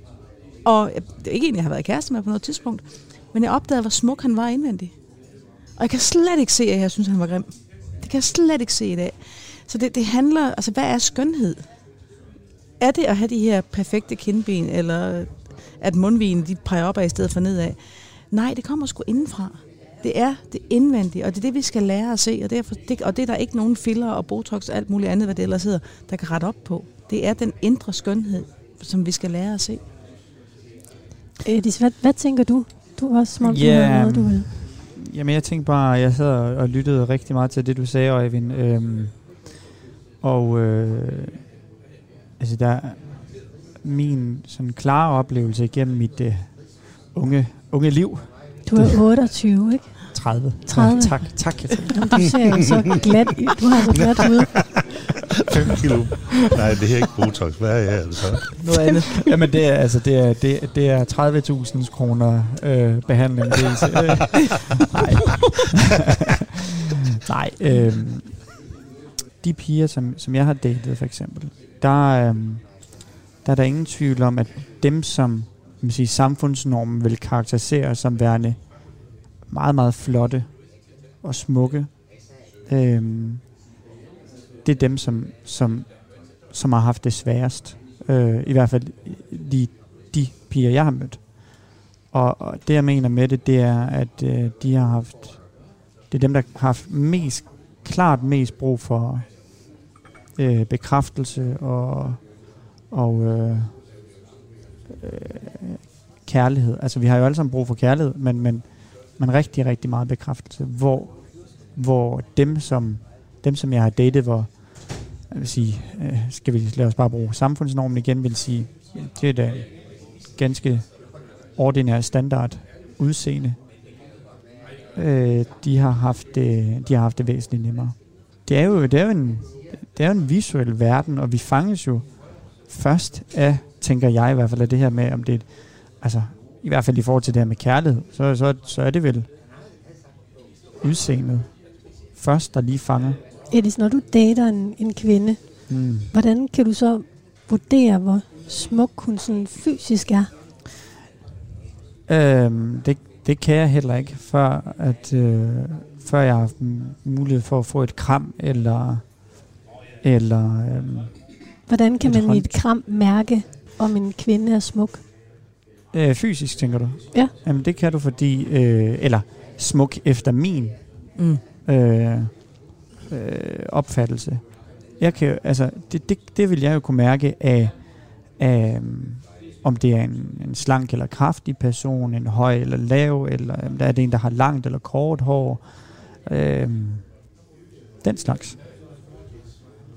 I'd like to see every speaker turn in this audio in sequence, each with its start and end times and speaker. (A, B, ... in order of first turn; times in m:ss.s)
0:00.6-0:05.0 A
0:05.8-0:11.7 A
0:12.8-0:29.8 A
0:31.5-0:34.5 B
0:33.4-0:39.2 C
0:40.2-0:41.4 C
0:42.4-0:49.0 C
0:48.7-0:54.5 B
0:50.1-0:52.4 C
0:55.5-0:58.5 D
0:58.6-0:59.2 A
0:59.1-1:06.0 C
1:06.8-1:08.5 C
1:09.4-1:20.6 C
1:21.2-1:22.1 C
1:22.7-1:23.4 C
1:24.6-1:35.5 C
1:36.1-1:39.3 C
1:40.4-1:42.3 C
1:42.9-1:43.8 C
1:45.0-2:01.0 C
2:01.5-2:03.6 C
2:05.0-2:19.3 C
2:20.8-2:23.2 C
2:23.5-2:30.3 B
2:25.7-2:26.1 C
2:32.1-2:39.2 C
2:40.0-2:41.2 C
2:41.7-2:45.0 B
2:42.0-2:42.6 C
2:45.9-2:52.5 C
2:51.2-2:51.4 A
2:53.1-3:07.1 C
3:08.0-3:08.6 C